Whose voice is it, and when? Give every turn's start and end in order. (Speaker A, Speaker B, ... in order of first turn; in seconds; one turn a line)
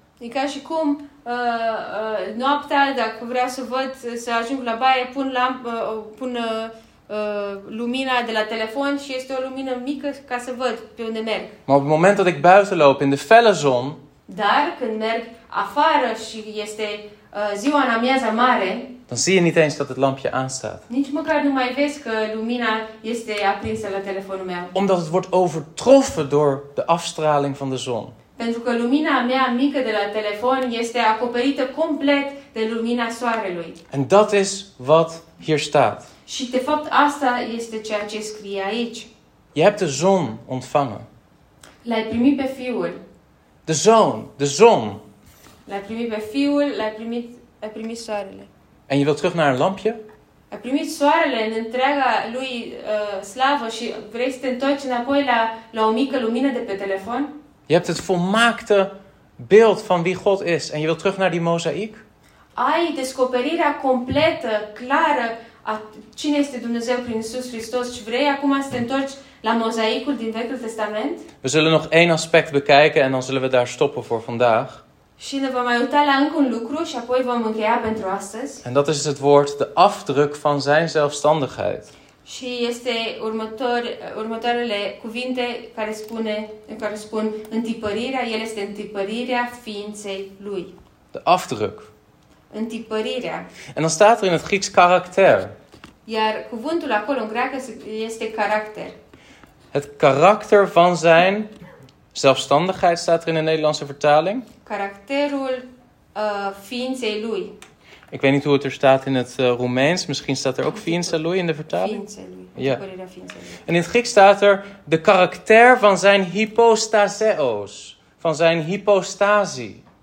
Speaker A: 0.2-11.6
Speaker B: 11.7-14.0
Speaker A: 14.3-18.9
Speaker B: 19.1-20.9
Speaker A: 20.9-24.7
Speaker B: 24.7-28.2
Speaker A: 28.4-33.8
Speaker B: 33.9-36.1
Speaker A: 36.3-39.1
Speaker B: 39.5-41.1
Speaker A: 41.8-43.0
Speaker B: 43.7-45.0
Speaker A: 45.7-48.5
Speaker B: 48.9-50.0
Speaker A: 50.5-57.3
Speaker B: 57.7-62.0
Speaker A: 62.5-71.2
Speaker B: 71.4-74.8
Speaker A: 75.2-78.6
Speaker B: 78.6-81.9
Speaker A: 82.2-90.7
Speaker B: 91.1-91.9
Speaker A: 92.5-93.5
Speaker B: 93.8-95.5
Speaker A: 96.1-99.0
Speaker B: 99.7-101.5
Speaker B: 102.1-104.5
Speaker A: 104.7-107.5
Speaker B: 108.1-112.0
Speaker A: 110.9-111.2
Speaker A: 111.7-113.6
Speaker B: 112.6-112.8
Speaker B: 113.7-119.8